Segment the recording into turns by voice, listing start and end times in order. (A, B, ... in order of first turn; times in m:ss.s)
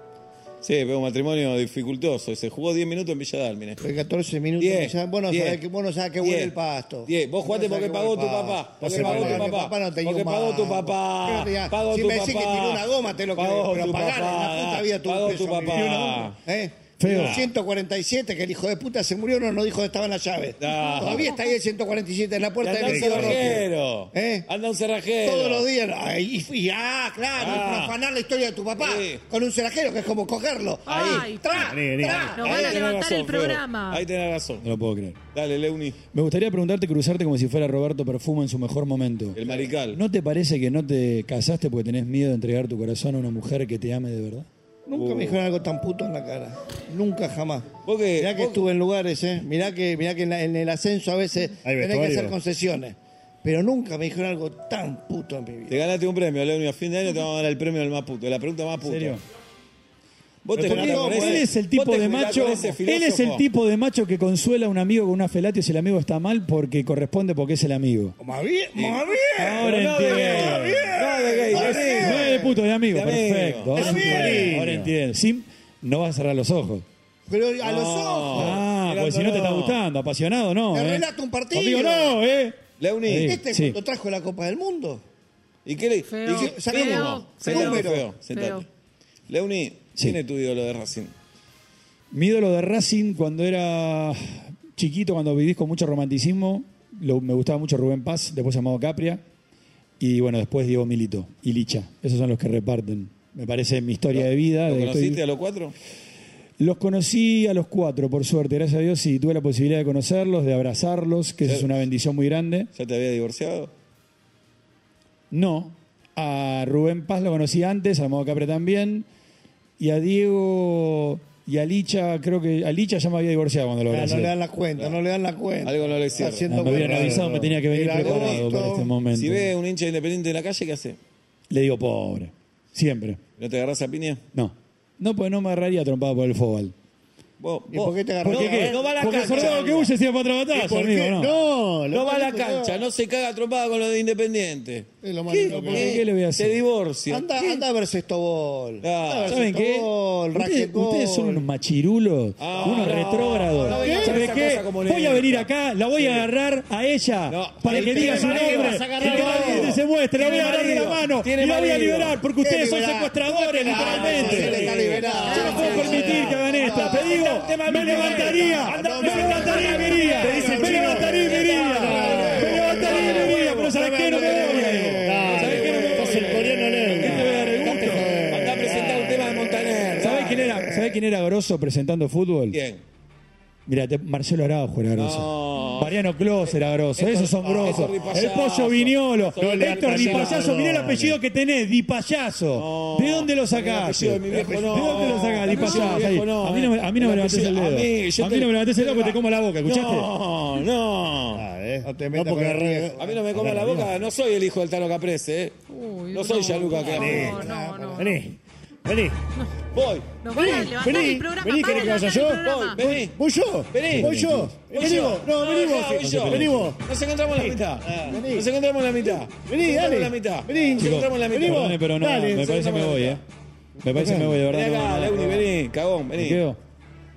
0:00.6-0:03.8 A
0:03.8-0:24.4 B
0:04.6-0:05.6 A
0:06.2-0:06.5 A
0:07.0-0:16.4 A
0:08.8-0:09.5 C
0:15.7-0:16.3 D
0:17.0-0:17.5 D
0:17.0-0:17.5 A
0:20.6-0:21.4 A
0:20.9-0:21.3 E
0:22.6-0:25.7 A
0:22.8-0:23.6 C
0:25.2-0:32.9 B
0:27.4-0:28.0 A
0:28.8-0:29.2 A
0:30.9-0:31.3 A
0:30.9-0:31.7 E
0:31.5-0:32.4 C
0:32.3-0:34.0 E
0:32.4-0:34.6 A
0:34.6-0:35.2 D
0:35.3-0:36.0 A
0:36.1-0:39.4 D
0:39.4-0:40.0 A
0:39.9-0:44.5 D
0:44.9-0:55.8 B
0:44.9-0:45.4 A
0:47.8-0:48.6 A
0:51.6-0:52.4 C
0:55.7-0:59.2 A
0:58.8-0:59.2 D
1:00.4-1:03.4 A
1:00.6-1:01.5 B
1:00.6-1:08.2 D
1:08.2-1:12.6 B
1:08.7-1:09.0 A
1:09.4-1:10.8 D
1:09.6-1:14.5 A
1:11.6-1:16.8 D
1:13.7-1:14.6 B
1:14.0-1:14.9 C
1:17.3-1:18.6 B
1:17.6-1:19.8 A
1:18.3-1:23.8 D
1:20.7-1:22.2 B
1:22.8-1:23.4 A
1:23.1-1:25.0 B
1:25.6-1:28.6 A
1:26.1-1:28.6 E
1:26.3-1:28.1 B
1:29.3-1:31.1 A
1:32.1-1:39.2 D
1:40.0-1:45.2 D
1:44.1-1:45.7 A
1:46.6-1:52.7 D
1:52.7-1:53.7 A
1:55.3-1:59.0 D
1:59.8-2:04.3 D
2:03.9-2:08.9 B
2:05.6-2:06.9 A
2:06.5-2:09.5 D
2:06.6-2:07.6 C
2:08.0-2:08.4 A
2:09.1-2:11.0 A
2:11.5-2:13.2 D
2:13.4-2:14.2 A
2:14.3-2:16.7 D
2:17.4-2:19.9 A
2:17.7-2:19.9 B
2:18.2-2:21.3 D
2:20.5-2:22.8 C
2:21.9-2:27.7 A
2:25.0-2:26.0 C
2:25.5-2:26.6 D
2:27.1-2:31.4 B
2:28.8-2:29.4 A
2:29.2-2:44.7 D
2:32.4-2:36.3 A
2:33.6-2:34.2 B
2:33.8-2:34.1 C
2:37.3-2:42.2 A
2:37.7-2:40.8 B
2:37.8-2:39.8 C
2:42.4-2:55.6 B
2:43.7-2:46.6 C
2:43.7-3:00.8 A
2:45.2-2:46.1 E
2:45.3-2:58.1 D
2:48.8-2:53.0 C
2:55.0-2:59.7 C
3:00.0-3:02.6 D
3:02.5-3:02.8 A
3:03.6-3:20.1 D
3:05.0-3:10.5 A
3:07.8-3:08.0 C
3:09.4-3:11.2 C
3:12.5-3:21.4 A
3:14.3-3:15.6 B
3:15.7-3:16.0 E
3:21.3-3:24.0 C
3:21.8-3:23.2 B
3:23.0-3:25.6 A
3:25.7-3:28.2 E
3:26.1-3:27.4 A
3:26.9-3:29.2 C
3:26.9-3:28.2 B
3:29.7-3:30.6 A
3:30.2-3:32.8 E
3:30.3-3:36.8 C
3:30.4-3:30.6 B
3:31.6-3:33.1 A
3:33.7-3:43.2 A
3:33.8-3:34.6 D
3:36.0-3:36.7 D
3:37.3-3:38.4 C
3:38.0-3:38.4 B
3:39.4-3:42.5 C
3:40.8-3:43.2 D
3:43.8-3:45.5 D
3:43.9-3:44.4 C
3:44.0-3:46.4 A
3:46.2-3:46.6 D